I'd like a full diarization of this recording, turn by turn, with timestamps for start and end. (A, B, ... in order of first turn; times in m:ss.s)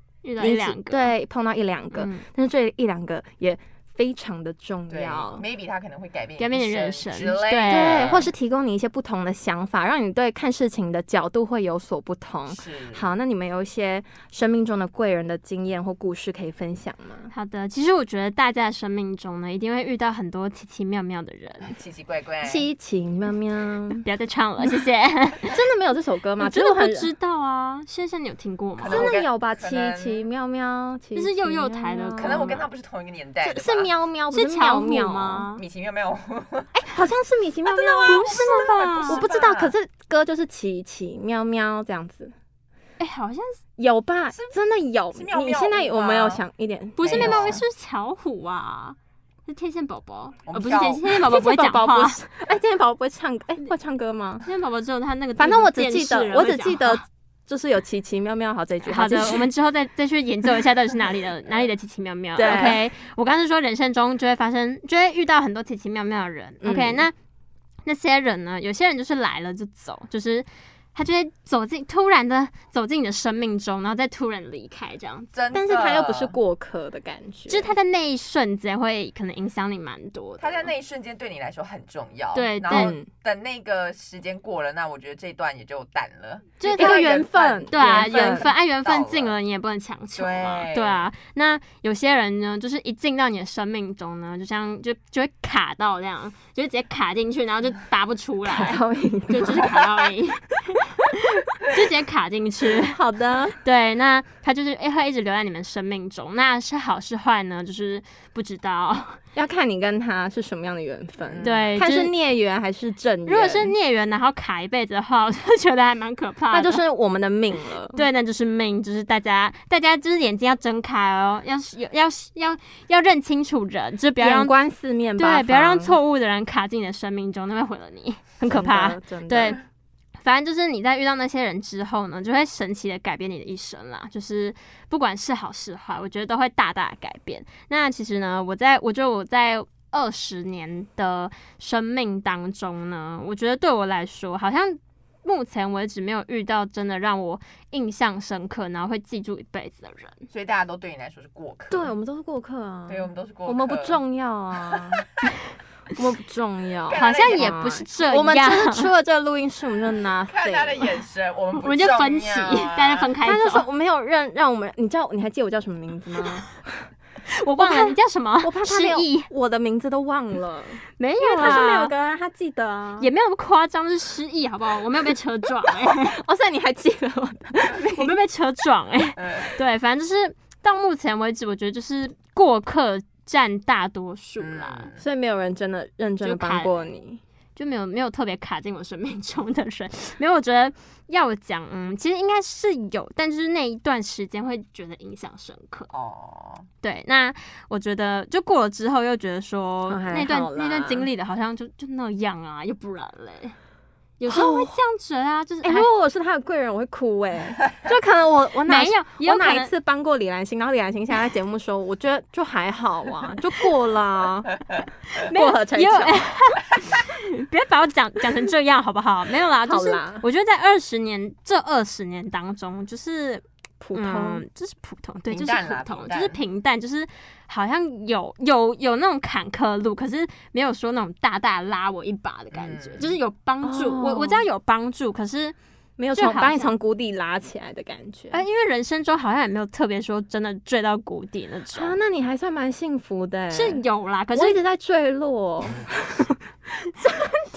0:00.2-0:01.1 A
0:00.4-0:05.4 B
0:01.9-0:02.2 A
0:04.9-0:08.3 C
0:06.4-0:08.2 A
0:07.7-0:17.3 B
0:12.5-0:13.1 C
0:17.3-0:21.8 A
0:21.7-0:22.7 C
0:22.4-0:24.0 B
0:24.0-0:25.5 A
0:25.5-0:27.1 B
0:26.4-0:29.1 A
0:28.8-0:30.3 C
0:28.8-0:32.6 B
0:31.1-0:32.7 A
0:32.2-0:33.9 C
0:33.4-0:35.5 B
0:34.3-0:35.6 A
0:35.6-0:36.9 C
0:36.8-0:42.3 B
0:37.7-0:39.7 C
0:38.0-0:39.2 A
0:43.0-0:43.6 A
0:43.8-0:47.6 B
0:44.3-0:44.6 C
0:45.1-0:46.4 C
0:47.0-0:52.2 A
0:47.0-0:47.6 C
0:50.5-0:51.0 C
0:51.0-0:54.4 B
0:54.4-0:57.0 A
0:55.4-0:59.5 B
0:58.9-1:07.1 A
1:02.4-1:02.8 B
1:06.6-1:07.1 B
1:07.9-1:15.3 A
1:15.3-1:16.4 C
1:15.5-1:17.7 B
1:17.5-1:20.7 A
1:20.4-1:29.4 C
1:22.3-1:22.9 A
1:22.7-1:23.1 B
1:26.6-1:27.1 A
1:26.8-1:28.5 B
1:27.7-1:43.0 A
1:30.2-1:31.1 C
1:38.5-1:39.7 B
1:42.8-1:43.6 B
1:43.6-1:49.2 A
1:49.4-1:53.7 B
1:51.2-1:51.7 C
1:51.4-1:52.1 A
1:53.3-1:56.8 A
1:56.5-1:58.0 B
1:57.9-2:04.5 A
2:04.2-2:06.0 B
2:05.2-2:09.6 A
2:08.4-2:09.6 B
2:10.2-2:30.3 A
2:30.3-2:31.9 C
2:31.7-2:35.0 B
2:32.9-2:34.0 C
2:34.7-2:35.0 C
2:36.0-2:41.0 B
2:36.9-2:37.8 C
2:37.0-2:38.9 A
2:40.3-2:43.1 C
2:41.6-2:43.6 A
2:43.2-2:46.9 B
2:47.3-2:49.3 A
2:47.6-2:53.1 B
2:51.0-2:51.9 A
2:53.0-2:56.2 A
2:56.1-2:58.1 B
2:57.9-3:04.9 A
2:59.2-2:59.5 C
3:04.4-3:05.0 C
3:05.0-3:07.2 B
3:06.2-3:06.8 A
3:07.6-3:15.9 A
3:15.9-3:16.7 C
3:16.8-3:23.6 A
3:19.9-3:21.1 B
3:24.2-3:25.9 A
3:24.3-3:24.7 B
3:25.6-3:34.6 B
3:28.7-3:29.7 A
3:35.1-3:55.6 A
3:35.2-3:36.2 B
3:39.6-3:40.2 B
3:43.8-3:44.4 B
3:45.3-3:46.4 C
3:52.5-3:53.1 C
3:53.6-3:54.4 B
3:56.0-3:58.4 B
3:56.1-3:56.7 A
3:58.3-4:02.0 A
4:01.7-4:03.8 B
4:03.5-4:04.6 A
4:04.4-4:06.4 B